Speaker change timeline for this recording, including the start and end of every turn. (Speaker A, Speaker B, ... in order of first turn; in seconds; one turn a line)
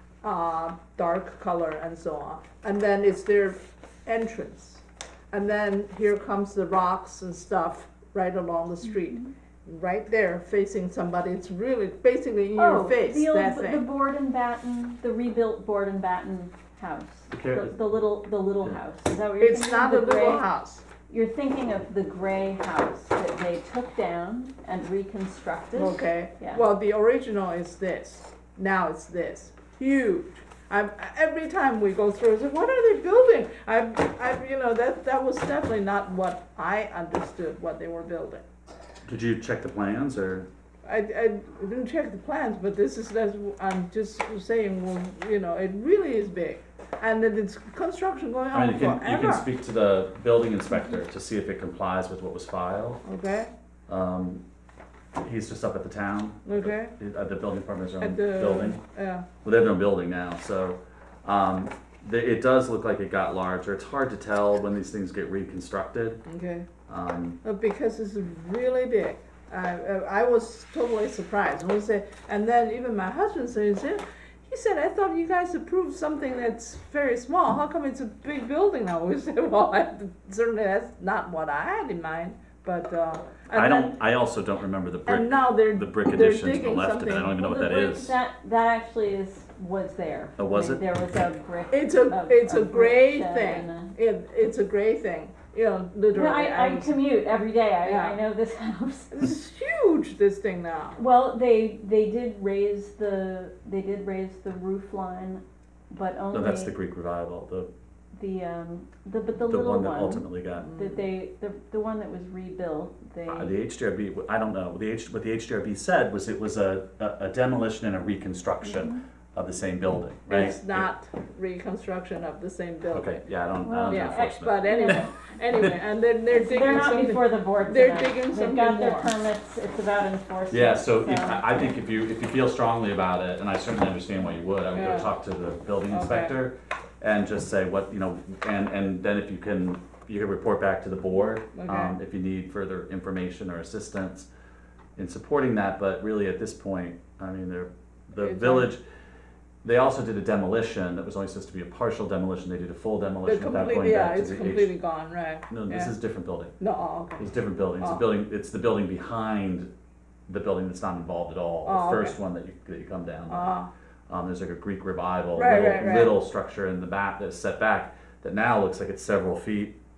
Speaker A: 0.2-13.8
Speaker B: 12.5-20.4
Speaker C: 17.3-17.7
Speaker A: 19.4-20.8
Speaker B: 21.1-26.6
Speaker A: 25.7-38.4
Speaker C: 39.0-40.5
Speaker A: 40.8-49.5
Speaker C: 48.5-53.0
Speaker A: 53.0-53.5
Speaker C: 53.9-54.4
Speaker C: 55.2-58.8
Speaker A: 56.5-56.9
Speaker A: 58.0-59.3
Speaker C: 59.4-66.2
Speaker A: 66.2-66.7
Speaker C: 66.9-67.4
Speaker A: 67.4-84.0
Speaker C: 83.5-88.1
Speaker A: 85.0-87.3
Speaker B: 87.3-93.9
Speaker C: 90.4-90.8
Speaker A: 91.7-97.0
Speaker B: 96.1-99.2
Speaker A: 97.8-98.2
Speaker A: 99.1-101.0
Speaker B: 101.0-106.7
Speaker C: 106.3-107.7
Speaker B: 108.1-113.5
Speaker C: 109.5-110.7
Speaker A: 110.5-111.1
Speaker C: 113.3-120.9
Speaker B: 118.6-119.0
Speaker A: 120.3-123.2
Speaker C: 122.9-125.0
Speaker B: 123.6-125.1
Speaker A: 123.9-129.1
Speaker B: 126.3-131.4
Speaker C: 130.5-144.3
Speaker A: 134.7-135.1
Speaker A: 135.9-136.4
Speaker A: 141.5-141.9
Speaker C: 144.9-148.8
Speaker A: 148.2-148.7
Speaker C: 149.6-154.7
Speaker A: 153.2-155.9
Speaker C: 155.5-156.6
Speaker A: 156.6-157.2
Speaker C: 157.2-159.7
Speaker A: 157.8-158.1
Speaker C: 160.3-163.5
Speaker A: 161.6-162.2
Speaker A: 163.3-163.7
Speaker C: 164.1-169.8
Speaker A: 165.3-166.2